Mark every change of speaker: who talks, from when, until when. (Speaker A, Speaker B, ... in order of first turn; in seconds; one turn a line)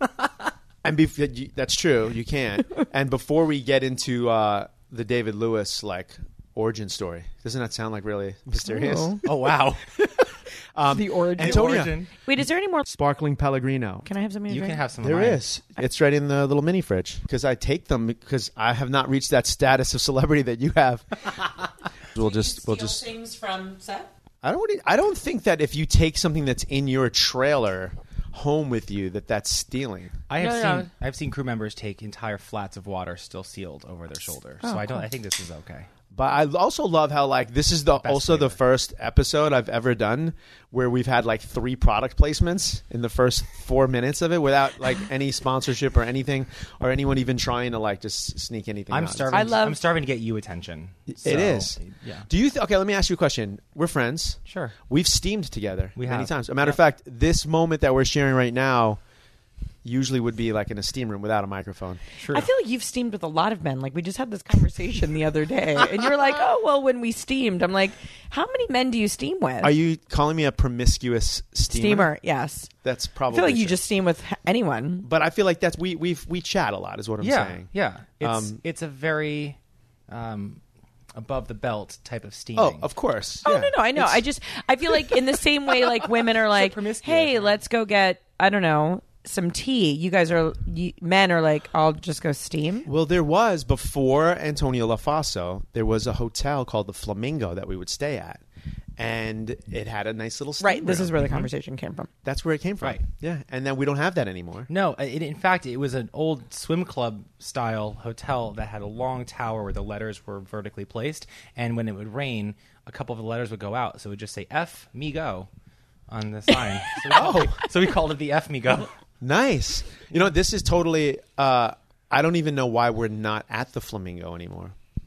Speaker A: 0.8-9.2
Speaker B: 8.7-9.2
Speaker C: 9.2-9.8
Speaker A: 10.8-11.9
Speaker B: 10.9-12.8
Speaker C: 11.4-12.1
Speaker A: 12.8-14.1
Speaker B: 14.1-14.8
Speaker C: 14.5-15.4
Speaker A: 15.0-21.3
Speaker A: 22.1-23.1
Speaker B: 22.2-24.1
Speaker A: 24.4-30.2
Speaker C: 30.3-35.9
Speaker B: 30.4-30.9
Speaker B: 34.6-35.1
Speaker A: 36.1-49.5
Speaker C: 38.0-38.6
Speaker C: 48.9-52.3
Speaker B: 49.3-49.8
Speaker A: 51.1-59.0
Speaker C: 54.5-54.8
Speaker C: 56.0-56.8
Speaker A: 59.8-62.0
Speaker C: 62.2-62.5
Speaker B: 62.3-69.7
Speaker A: 69.6-72.1
Speaker B: 71.7-72.7
Speaker A: 72.8-73.8
Speaker B: 73.3-75.1
Speaker A: 75.0-77.7
Speaker C: 77.2-79.6
Speaker A: 78.2-78.6
Speaker C: 80.1-80.6
Speaker C: 81.2-82.9
Speaker A: 82.6-84.2
Speaker B: 83.4-92.9
Speaker C: 85.8-87.6
Speaker A: 92.9-98.4
Speaker A: 99.0-101.5
Speaker B: 100.6-102.1
Speaker A: 102.2-104.7
Speaker C: 104.7-115.5
Speaker C: 116.1-118.9
Speaker A: 117.1-117.6
Speaker A: 119.2-124.8